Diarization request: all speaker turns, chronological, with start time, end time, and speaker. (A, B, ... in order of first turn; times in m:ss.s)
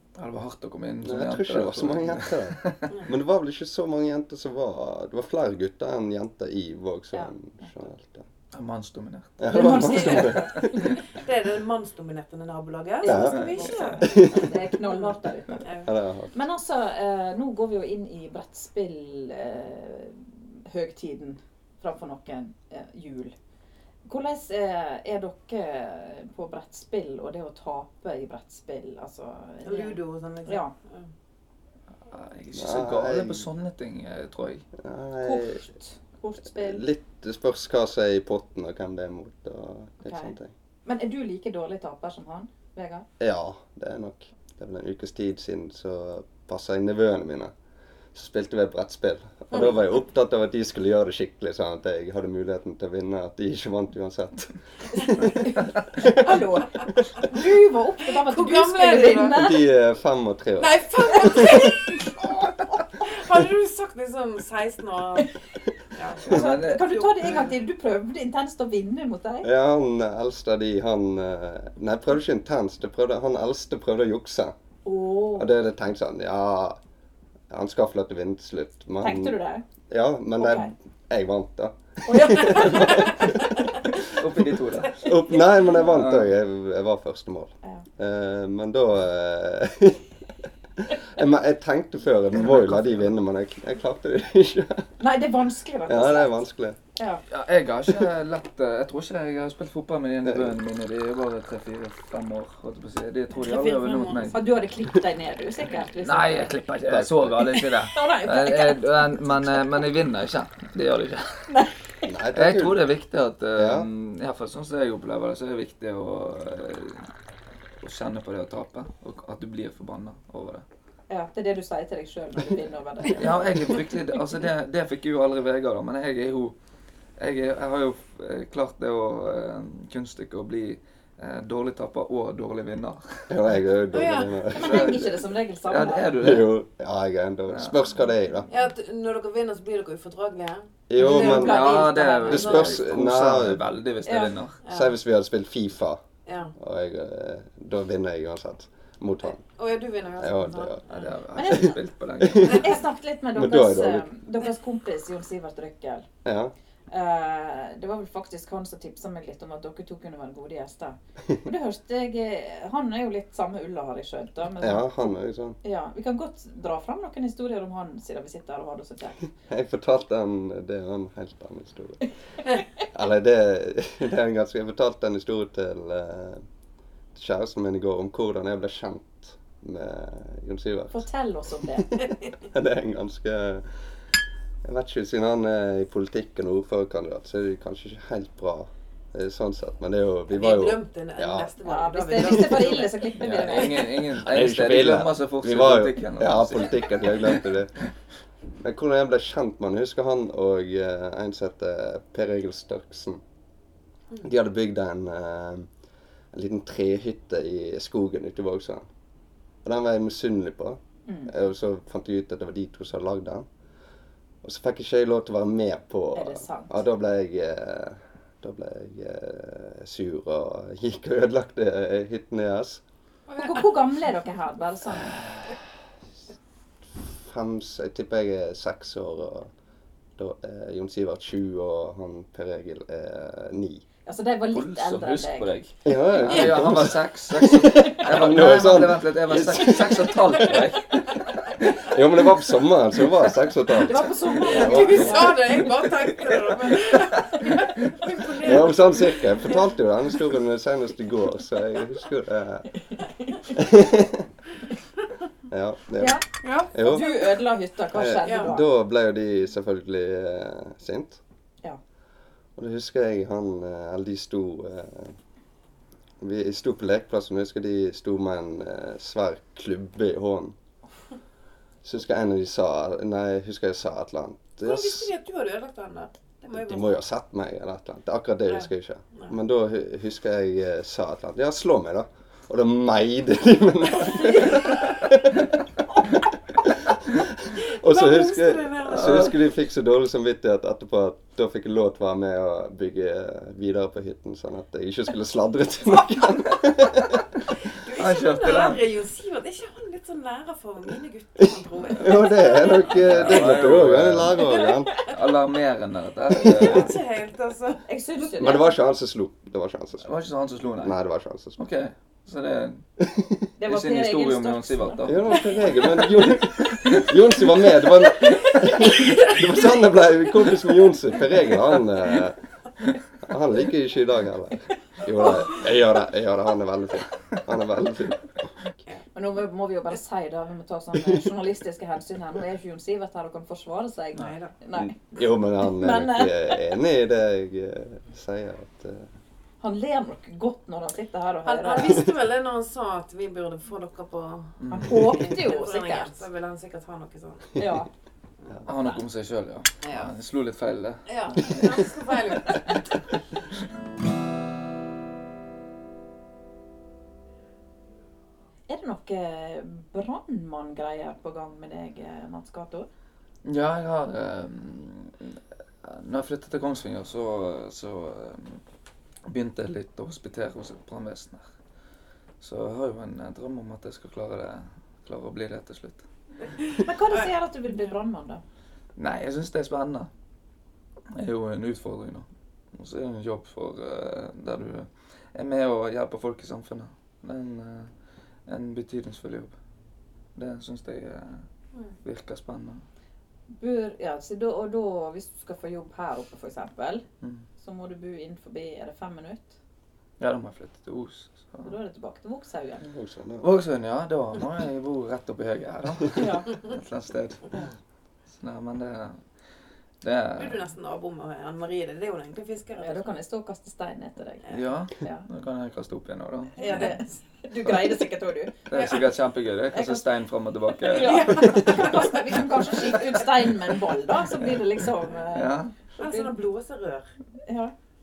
0:00.2-0:02.9 A
0:01.0-0:08.3 B
0:08.5-0:09.5 A
0:09.4-0:10.9 B
0:09.5-0:11.0 C
0:09.8-0:14.3 D
0:13.0-0:15.8 C
0:13.0-0:14.6 B
0:15.6-0:15.9 D
0:15.8-0:16.4 B
0:16.3-0:23.4 C
0:24.1-0:30.8 C
0:29.6-0:31.1 D
0:32.1-0:34.6 A
0:32.5-0:33.5 B
0:34.8-0:35.6 B
0:35.2-0:36.8 C
0:36.5-0:40.5 B
0:40.0-0:43.1 C
0:43.2-0:47.5 B
0:48.1-0:56.4 B
0:55.4-0:59.7 C
0:58.1-0:59.4 D
0:59.3-1:01.7 B
1:00.6-1:02.3 D
1:03.0-1:05.3 D
1:05.9-1:07.6 D
1:06.3-1:06.9 A
1:06.3-1:09.5 C
1:09.4-1:14.5 B
1:14.8-1:15.5 C
1:15.4-1:16.8 B
1:17.5-1:19.4 B
1:19.0-1:19.6 C
1:19.9-1:24.2 B
1:20.4-1:20.7 C
1:22.0-1:23.4 C
1:24.0-1:25.1 A
1:25.0-1:30.1 B
1:25.8-1:26.3 A
1:30.8-1:34.9 B
1:32.4-1:33.1 A
1:35.0-1:36.4 C
1:35.9-1:36.8 B
1:37.0-1:37.2 C
1:37.3-1:44.4 A
1:40.2-1:40.6 B
1:43.4-1:46.6 C
1:46.0-1:51.5 A
1:46.9-1:47.5 B
1:47.6-1:49.8 C
1:51.5-1:51.8 C
1:52.0-1:52.8 B
1:52.3-1:57.1 A
1:53.6-1:53.9 B
1:57.8-2:00.6 A
2:01.1-2:03.8 C
2:03.1-2:06.6 A
2:07.2-2:13.3 A
2:13.3-2:15.1 B
2:13.9-2:14.4 D
2:14.5-2:16.1 C
2:14.6-2:15.2 A
2:15.7-2:16.6 A
2:16.2-2:18.5 B
2:17.5-2:17.8 A
2:18.5-2:21.8 D
2:20.9-2:23.6 B
2:21.0-2:22.8 C
2:21.0-2:24.6 A
2:24.0-2:24.3 C
2:24.6-2:25.0 D
2:24.7-2:26.0 B
2:26.3-2:26.5 D
2:26.6-2:29.4 B
2:29.4-2:31.1 D
2:30.2-2:30.8 B
2:30.9-2:32.8 A
2:31.4-2:31.8 C
2:32.2-2:32.7 B
2:32.4-2:36.1 C
2:33.3-2:34.1 B
2:36.2-2:36.5 B
2:36.9-2:49.2 C
2:44.6-2:45.6 B
2:49.5-2:52.0 B
2:52.9-2:56.4 B
2:57.1-3:01.1 B
3:00.9-3:01.9 C
3:02.0-3:03.6 B
3:04.6-3:11.5 B
3:10.3-3:13.1 D
3:11.6-3:13.9 C
3:12.2-3:12.7 B
3:13.2-3:17.4 A
3:13.3-3:17.8 B
3:18.6-3:23.2 B
3:24.2-3:25.7 B
3:26.3-3:28.9 B
3:29.6-3:33.5 B
3:31.1-3:31.3 C
3:34.4-3:42.8 B
3:36.2-3:36.8 C
3:43.3-3:43.8 D
3:43.4-3:45.2 C
3:47.0-3:49.5 B
3:50.2-3:53.8 B
3:54.1-3:55.5 C
3:54.5-4:01.6 A
3:55.8-4:00.7 B
4:01.7-4:05.4 B
4:03.7-4:05.7 C
4:04.4-4:09.5 D
4:06.1-4:07.9 A
4:08.4-4:12.7 B
4:13.5-4:14.3 B
4:15.5-4:16.2 B
4:16.0-4:16.2 C
4:16.4-4:17.2 D
4:16.7-4:17.1 B
4:16.8-4:18.6 C
4:17.9-4:21.2 B
4:18.2-4:18.5 D
4:22.6-4:25.2 B
4:26.2-4:30.6 B
4:31.8-4:35.1 B
4:34.6-4:37.0 D
4:36.5-4:45.6 B
4:46.6-4:57.2 B
4:47.6-4:49.3 D
4:49.0-4:49.2 A
4:57.7-5:03.4 D
4:57.9-4:58.8 A
5:02.0-5:04.9 B
5:02.9-5:07.0 A
5:04.5-5:05.1 D
5:06.3-5:07.8 D
5:06.4-5:06.8 B
5:07.9-5:08.7 C
5:08.4-5:10.1 B
5:10.0-5:11.0 A
5:10.8-5:11.6 B
5:11.6-5:12.8 A
5:13.0-5:13.3 B
5:13.6-5:15.2 C
5:13.7-5:15.8 A
5:15.0-5:22.4 B
5:23.2-5:28.3 B
5:29.2-5:36.6 C
5:34.2-5:34.5 D
5:34.7-5:39.1 B
5:39.6-5:42.1 C
5:41.4-5:47.6 D
5:44.6-5:45.3 A
5:44.7-5:46.2 C
5:47.6-5:47.9 C
5:48.6-5:51.9 A
5:49.8-5:50.1 D
5:51.1-5:53.0 D
5:58.7-6:02.9 C
6:03.4-6:08.6 A
6:09.3-6:11.4 A
6:12.4-6:16.0 A
6:16.8-6:18.4 C
6:19.0-6:20.1 A
6:21.1-6:27.9 A
6:28.5-6:29.5 A
6:30.4-6:31.4 A
6:32.0-6:32.8 A
6:33.6-6:37.0 C
6:37.6-6:39.6 C
6:40.2-6:41.7 A
6:41.6-6:42.9 C
6:42.8-6:43.5 B
6:43.4-6:47.5 A
6:46.2-6:46.5 C
6:48.3-6:49.2 A
6:50.0-6:50.6 A
6:50.4-6:53.0 D
6:52.8-6:55.3 C
6:54.5-6:56.9 A
6:56.6-6:58.5 C
6:56.6-6:57.0 D
6:58.7-7:01.6 A
6:58.7-6:59.1 D
6:59.7-7:00.1 C
7:00.9-7:06.3 C
7:00.9-7:03.0 D
7:05.3-7:05.7 A
7:06.0-7:07.1 D
7:07.4-7:07.7 C